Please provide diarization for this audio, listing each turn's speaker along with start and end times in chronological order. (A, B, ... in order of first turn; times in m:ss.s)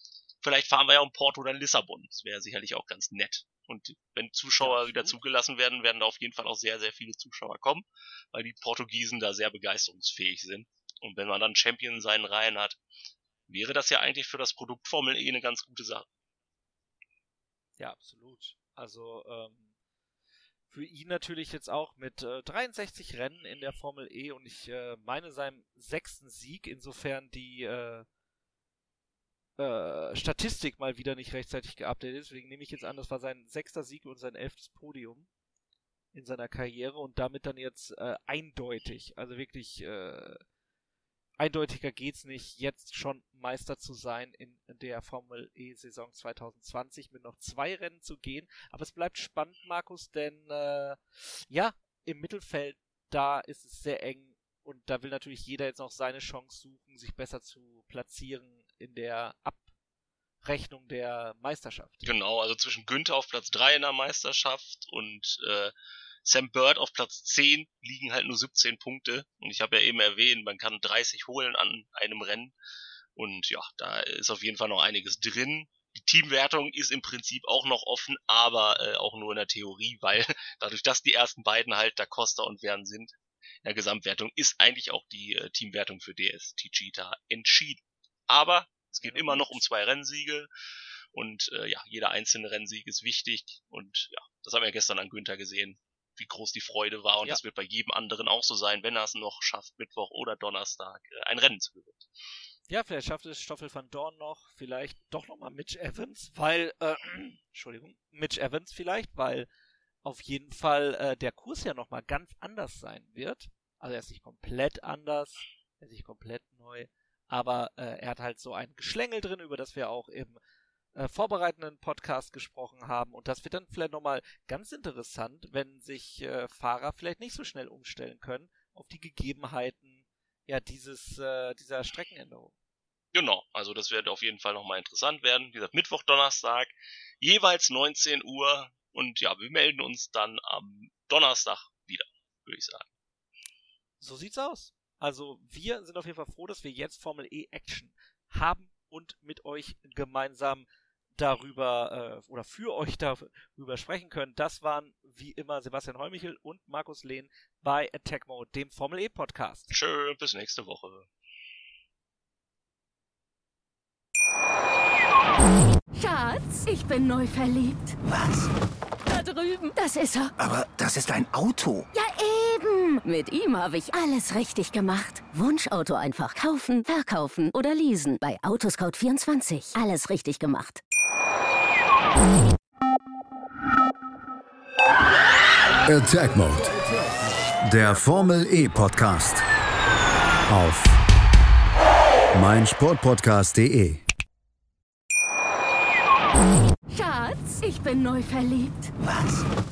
0:00.4-0:12.8 A
0:04.6-0:05.2 B
0:13.5-0:16.1 A
0:17.8-0:19.7 B
0:20.7-0:28.1 B
0:29.6-0:35.3 B
0:36.1-0:40.4 B
0:41.4-0:59.7 B
1:00.4-1:02.1 B
1:02.0-1:05.7 A
1:06.2-1:12.5 A
1:13.2-1:30.5 A
1:29.0-1:29.6 B
1:31.1-1:42.0 A
1:42.7-1:49.5 B
1:50.0-2:00.4 B
2:01.0-2:12.5 B
2:13.1-2:22.9 A
2:24.0-2:39.7 B
2:39.7-2:41.1 A
2:45.9-2:48.0 C
2:48.0-2:48.5 D
2:49.1-2:50.3 C
2:50.4-2:51.9 D
2:51.9-3:00.8 C
3:05.9-3:06.8 E
3:07.6-3:09.4 E
3:10.5-3:11.0 E
3:12.3-3:14.0 E
3:16.9-3:18.9 C
3:19.0-3:19.5 D